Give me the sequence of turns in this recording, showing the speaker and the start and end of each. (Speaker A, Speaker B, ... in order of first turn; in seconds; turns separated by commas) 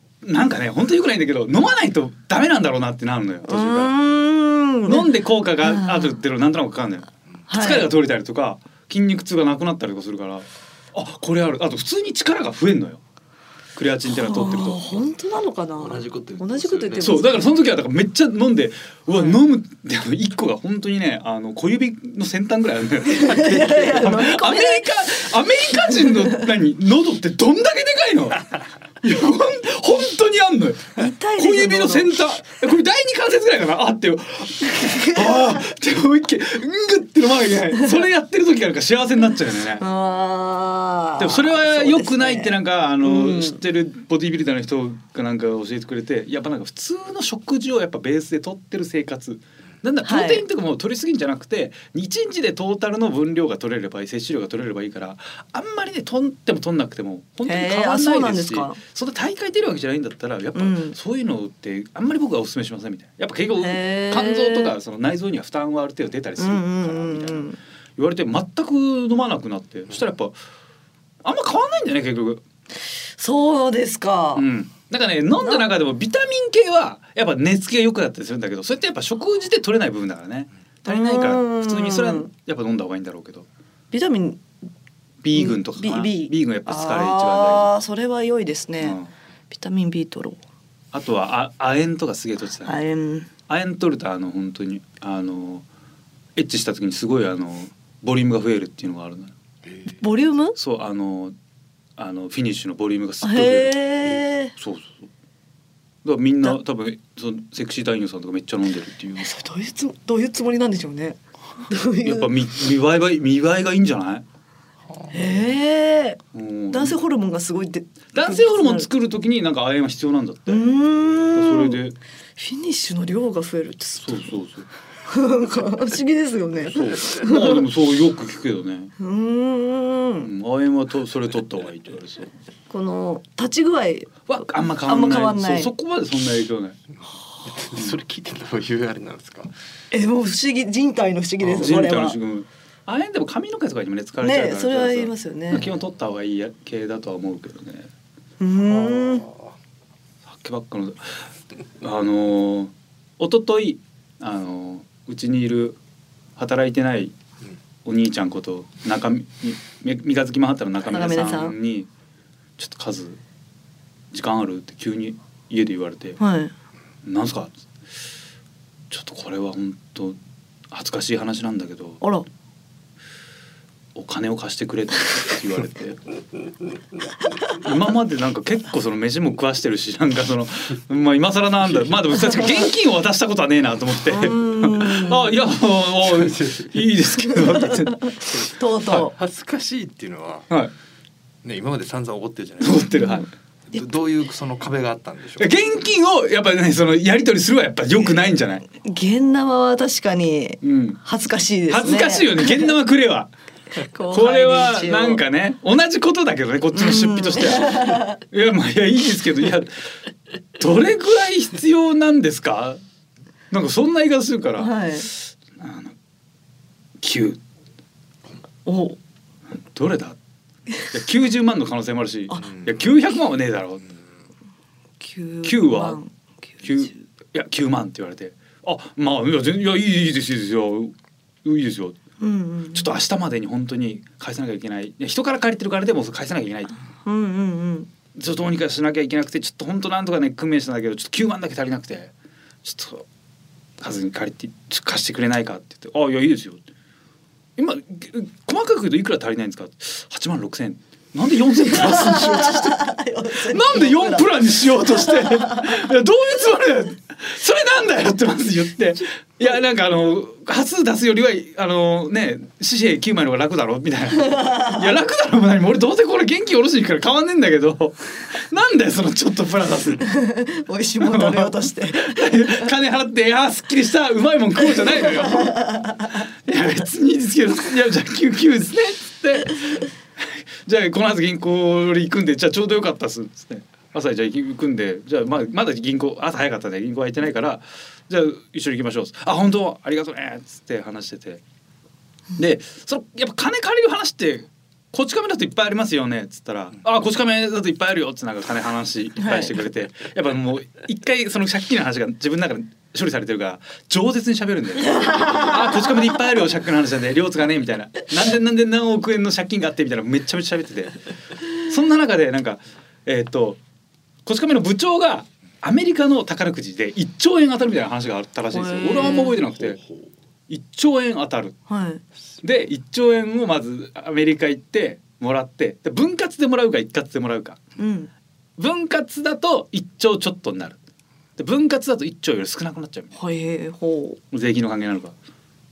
Speaker A: 0.2-3.9, Speaker B: 3.5-5.1, Speaker A: 4.8-13.0, Speaker B: 5.6-6.2, Speaker B: 7.5-7.9, Speaker A: 13.8-14.9, Speaker B: 14.0-17.5, Speaker C: 15.8-17.2, Speaker A: 17.0-28.4, Speaker B: 19.1-19.4, Speaker B: 23.1-24.9, Speaker B: 25.9-26.3, Speaker A: 29.0-39.8, Speaker B: 30.9-32.1, Speaker B: 34.7-35.6, Speaker B: 39.8-43.6, Speaker A: 41.2-70.3, Speaker B: 50.0-50.4, Speaker B: 57.5-58.8, Speaker B: 60.5-61.0, Speaker B: 63.6-64.7, Speaker B: 66.4-67.6, Speaker A: 71.2-72.4, Speaker B: 73.2-74.4, Speaker A: 74.3-83.5, Speaker B: 80.8-82.3, Speaker B: 83.9-84.4, Speaker A: 85.2-87.7, Speaker B: 85.3-89.0, Speaker A: 88.8-89.1, Speaker B: 89.5-90.4, Speaker A: 90.9-92.7, Speaker B: 92.6-93.3, Speaker A: 93.5-95.6, Speaker A: 96.3-99.3, Speaker B: 100.0-100.5, Speaker A: 100.5-101.3, Speaker A: 102.0-105.0, Speaker B: 103.2-104.5, Speaker A: 106.0-109.3, Speaker B: 109.2-112.3, Speaker A: 112.0-114.2, Speaker B: 115.1-116.2, Speaker A: 116.3-117.0, Speaker B: 116.7-118.9, Speaker A: 118.1-122.0, Speaker B: 120.5-121.8, Speaker B: 122.4-124.3, Speaker A: 124.0-124.7, Speaker B: 125.1-127.6, Speaker A: 126.7-128.9, Speaker B: 129.0-130.3, Speaker A: 130.2-132.3, Speaker B: 132.7-134.3, Speaker A: 134.3-136.8, Speaker B: 134.8-135.7, Speaker C: 137.4-139.5, Speaker B: 139.9-142.2, Speaker A: 141.5-147.9, Speaker B: 144.2-145.7, Speaker B: 148.4-149.3, Speaker C: 148.7-149.4, Speaker A: 150.2-151.2, Speaker A: 151.8-155.8, Speaker A: 156.4-157.1, Speaker A: 157.8-161.9, Speaker B: 160.9-161.5, Speaker A: 162.6-163.2, Speaker A: 164.1-166.2, Speaker B: 166.2-166.5, Speaker A: 167.0-167.5, Speaker A: 168.9-170.2, Speaker A: 170.7-172.0, Speaker A: 173.9-176.0, Speaker A: 177.4-189.0, Speaker B: 184.1-185.3, Speaker C: 186.4-186.6, Speaker B: 187.2-189.1, Speaker C: 188.9-190.5, Speaker C: 191.4-192.9, Speaker A: 192.6-193.3, Speaker B: 192.9-193.2, Speaker C: 193.7-195.6, Speaker A: 195.4-198.6, Speaker B: 198.7-202.7, Speaker A: 200.6-201.0, Speaker A: 201.7-203.3, Speaker B: 203.8-205.2, Speaker A: 204.1-209.8, Speaker B: 206.7-208.2, Speaker A: 210.6-212.8, Speaker A: 213.5-215.9, Speaker B: 214.6-215.1, Speaker A: 217.0-217.4, Speaker B: 218.7-219.0, Speaker A: 219.7-220.2, Speaker A: 220.9-223.9, Speaker B: 225.0-226.7, Speaker A: 225.4-226.0, Speaker A: 226.6-232.0, Speaker B: 232.2-232.9, Speaker A: 232.7-236.8, Speaker B: 237.0-237.9, Speaker A: 238.1-242.1, Speaker A: 242.6-243.0, Speaker A: 243.8-246.6, Speaker A: 247.6-252.8, Speaker B: 251.7-255.8, Speaker A: 253.5-270.1, Speaker B: 264.2-264.8, Speaker B: 270.1-272.7, Speaker A: 271.0-275.7, Speaker B: 275.2-276.1, Speaker A: 276.5-291.4, Speaker A: 292.4-311.0, Speaker B: 299.2-299.5, Speaker B: 304.9-305.5, Speaker A: 311.6-313.6, Speaker A: 314.2-319.8, Speaker B: 318.5-319.4, Speaker A: 320.5-321.6, Speaker B: 321.7-322.0, Speaker A: 322.4-327.6, Speaker B: 327.8-328.1, Speaker A: 328.6-330.8, Speaker A: 331.4-333.1, Speaker B: 333.1-334.2, Speaker A: 334.3-335.1